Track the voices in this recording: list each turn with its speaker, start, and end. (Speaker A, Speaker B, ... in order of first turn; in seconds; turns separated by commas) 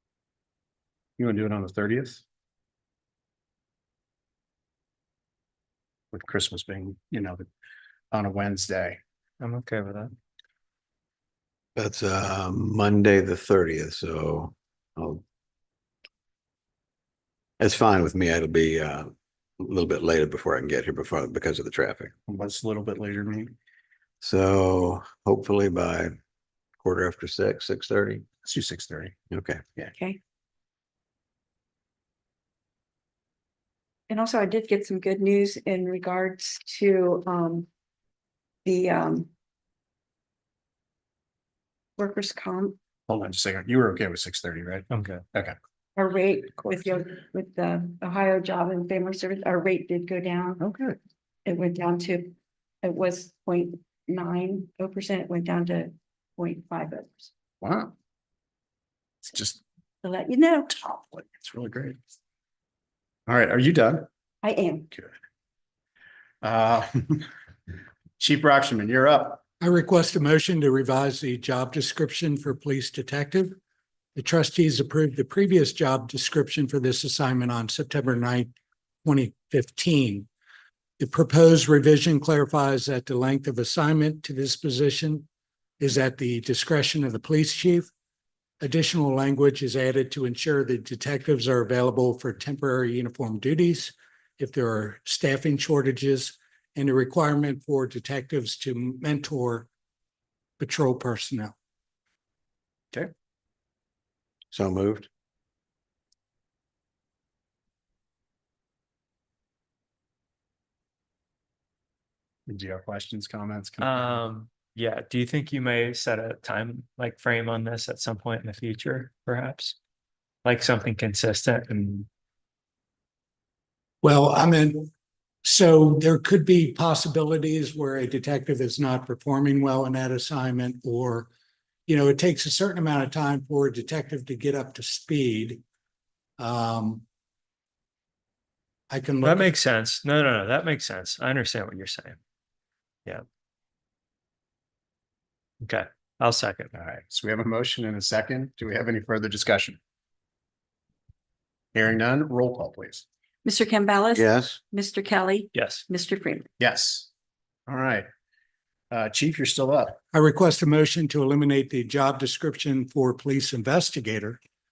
Speaker A: 1.2-2.2, Speaker A: 6.1-7.5, Speaker A: 8.1-9.0, Speaker B: 9.4-10.1, Speaker C: 11.8-15.2, Speaker C: 17.6-22.1, Speaker A: 22.3-23.5, Speaker C: 24.2-26.1, Speaker C: 26.8-28.2, Speaker A: 28.4-29.1, Speaker C: 29.3-29.7, Speaker D: 29.9-30.2, Speaker D: 34.1-37.7, Speaker D: 38.6-39.3, Speaker D: 42.0-42.8, Speaker A: 43.1-45.5, Speaker B: 44.9-45.2, Speaker D: 46.0-50.6, Speaker A: 50.6-51.0, Speaker D: 51.5-57.3, Speaker A: 57.6-57.9, Speaker A: 59.2-59.6, Speaker D: 60.0-61.0, Speaker A: 61.0-62.0, Speaker A: 63.3-64.1, Speaker D: 64.4-64.9, Speaker A: 66.4-67.3, Speaker A: 68.2-69.4, Speaker E: 69.6-73.5, Speaker E: 74.2-78.5, Speaker E: 79.0-80.3, Speaker E: 81.0-85.3, Speaker E: 85.8-87.9, Speaker E: 88.6-99.7, Speaker E: 100.6-101.5, Speaker C: 104.5-105.1, Speaker A: 112.5-114.1, Speaker B: 113.8-119.8, Speaker B: 120.4-122.1, Speaker E: 124.0-124.9, Speaker E: 125.4-131.3, Speaker E: 131.9-135.6, Speaker E: 136.4-137.0, Speaker E: 138.9-139.5, Speaker B: 139.2-142.2, Speaker B: 145.6-146.7, Speaker A: 146.7-149.8, Speaker A: 151.7-153.0, Speaker D: 153.4-156.5, Speaker C: 154.1-154.6, Speaker B: 155.5-155.8, Speaker A: 156.6-157.1, Speaker A: 157.7-158.1, Speaker A: 158.9-160.0, Speaker E: 160.1-164.4